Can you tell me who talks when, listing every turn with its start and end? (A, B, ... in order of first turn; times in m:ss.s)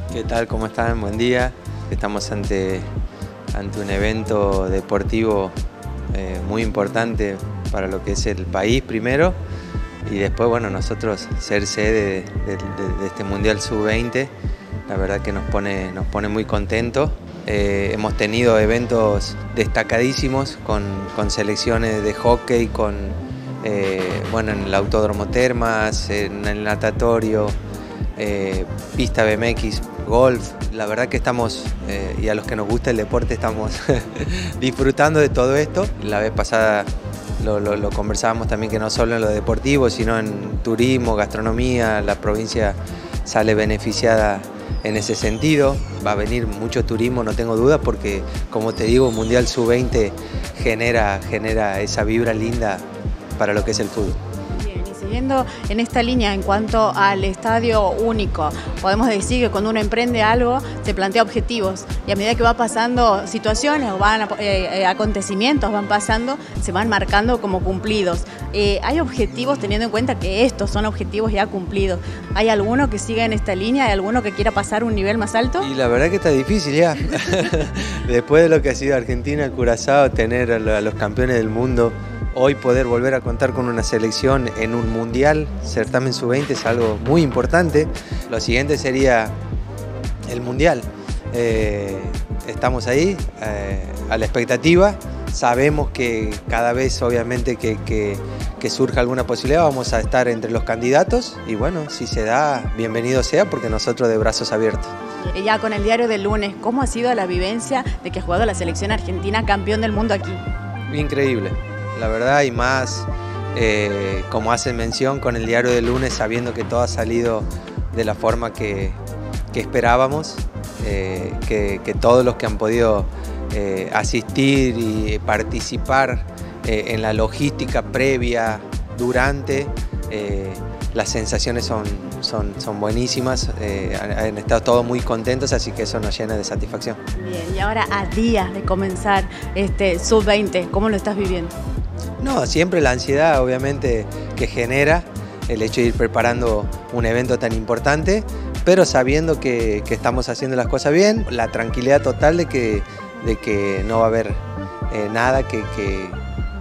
0:00.1-0:02.9 A
0:03.5-0:05.5 A
0:06.1-0:09.4 A
0:10.0-0:14.3 A
0:14.9-0:27.5 A
0:28.2-0:36.9 A
0:37.4-0:52.8 A
0:53.4-0:54.2 A
0:54.5-1:15.7 B
1:15.6-1:29.3 A
1:30.3-1:44.9 A
1:45.3-1:50.4 B
1:50.9-1:59.0 A
1:59.5-2:17.0 A
2:17.2-2:21.5 B
2:22.2-2:34.4 A
2:34.9-2:36.2 A